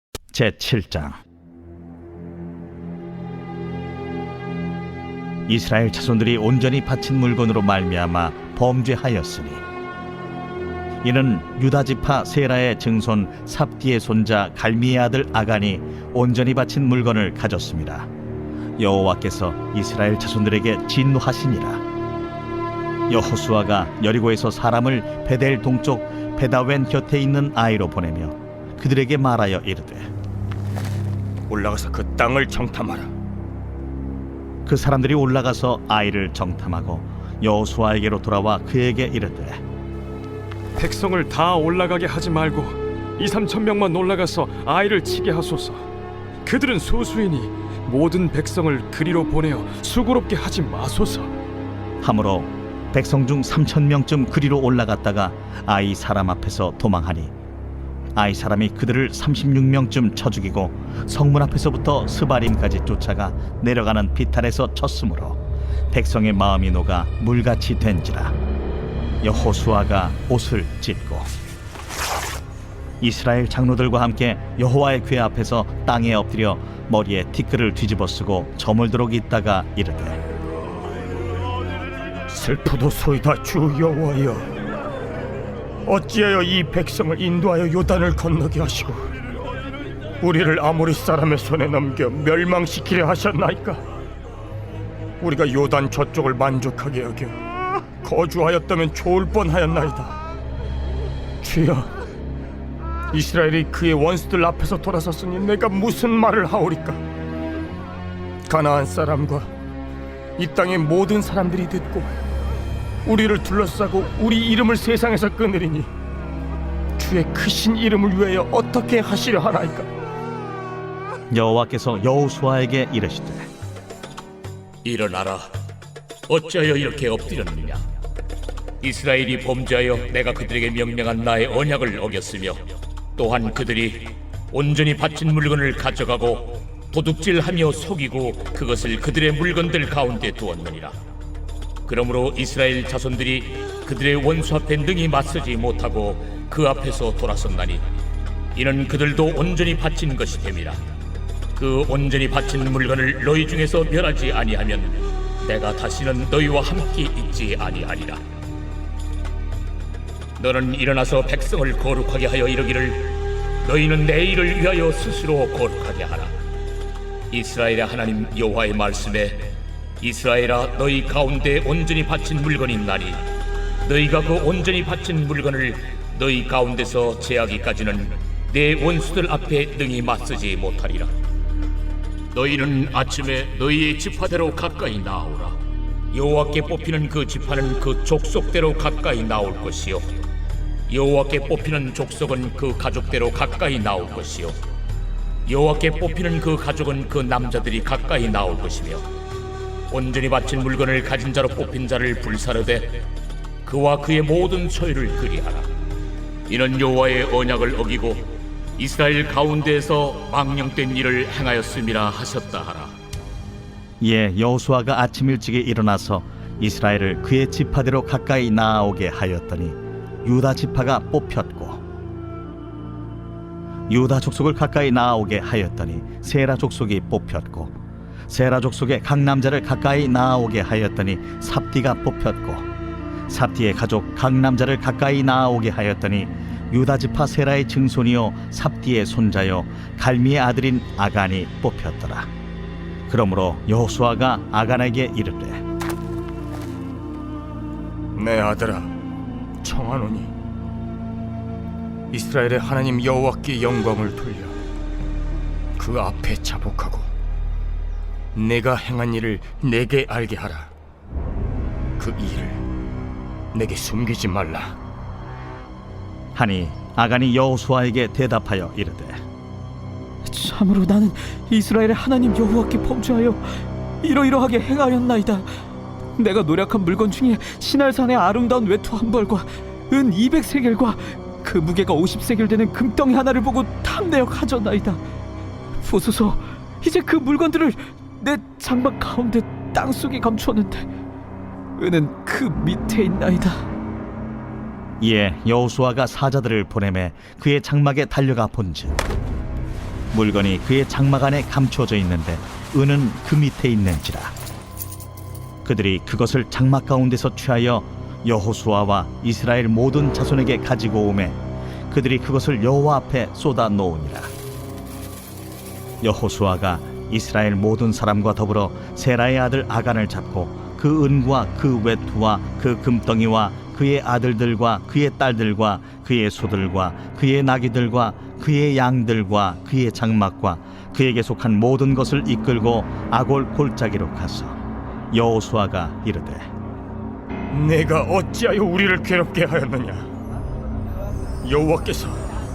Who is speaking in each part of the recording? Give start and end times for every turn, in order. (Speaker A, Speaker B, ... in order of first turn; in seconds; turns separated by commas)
Speaker A: 0.3-1.2, Speaker A: 5.5-9.6, Speaker A: 11.0-18.1, Speaker A: 18.8-21.8, Speaker A: 23.1-30.1, Speaker B: 31.5-33.1, Speaker A: 34.7-39.6, Speaker C: 40.8-45.8, Speaker C: 46.5-51.3, Speaker A: 52.0-57.3, Speaker A: 58.2-65.4, Speaker A: 65.9-68.3, Speaker A: 69.2-71.3, Speaker A: 73.0-80.2, Speaker B: 82.3-84.5, Speaker B: 85.9-89.1, Speaker B: 90.2-93.8, Speaker B: 95.2-97.4, Speaker B: 98.0-100.2, Speaker B: 101.4-101.9, Speaker B: 103.1-107.0, Speaker B: 108.5-109.5, Speaker B: 110.4-112.2, Speaker B: 113.0-115.9, Speaker B: 117.0-119.9, Speaker A: 121.3-123.5, Speaker D: 124.8-125.5, Speaker D: 126.3-127.8, Speaker D: 128.8-132.6, Speaker D: 133.2-140.9, Speaker D: 141.9-147.8, Speaker D: 148.6-150.8, Speaker D: 151.6-158.2, Speaker D: 160.4-166.3, Speaker D: 167.3-173.2, Speaker D: 173.8-181.1, Speaker D: 182.3-185.6, Speaker D: 186.1-190.1, Speaker D: 190.9-194.6, Speaker D: 195.5-199.1, Speaker D: 199.9-203.0, Speaker D: 203.7-205.7, Speaker D: 206.5-212.9, Speaker A: 214.0-221.8, Speaker A: 223.9-227.8, Speaker A: 228.3-232.7, Speaker A: 233.3-242.3, Speaker A: 243.1-245.6, Speaker B: 248.2-248.9, Speaker B: 249.6-250.3, Speaker B: 252.1-254.6, Speaker B: 255.8-257.1, Speaker B: 258.4-260.7, Speaker B: 262.0-262.6, Speaker B: 263.5-264.8, Speaker A: 266.4-269.2, Speaker E: 270.3-273.4, Speaker E: 274.1-275.4, Speaker E: 276.2-285.0, Speaker E: 285.9-290.8, Speaker E: 291.8-293.5, Speaker A: 295.0-299.0, Speaker A: 300.1-304.4, Speaker A: 305.6-311.4, Speaker A: 311.9-314.3, Speaker A: 316.0-334.6, Speaker A: 335.1-336.5, Speaker B: 337.5-340.1, Speaker B: 341.4-342.2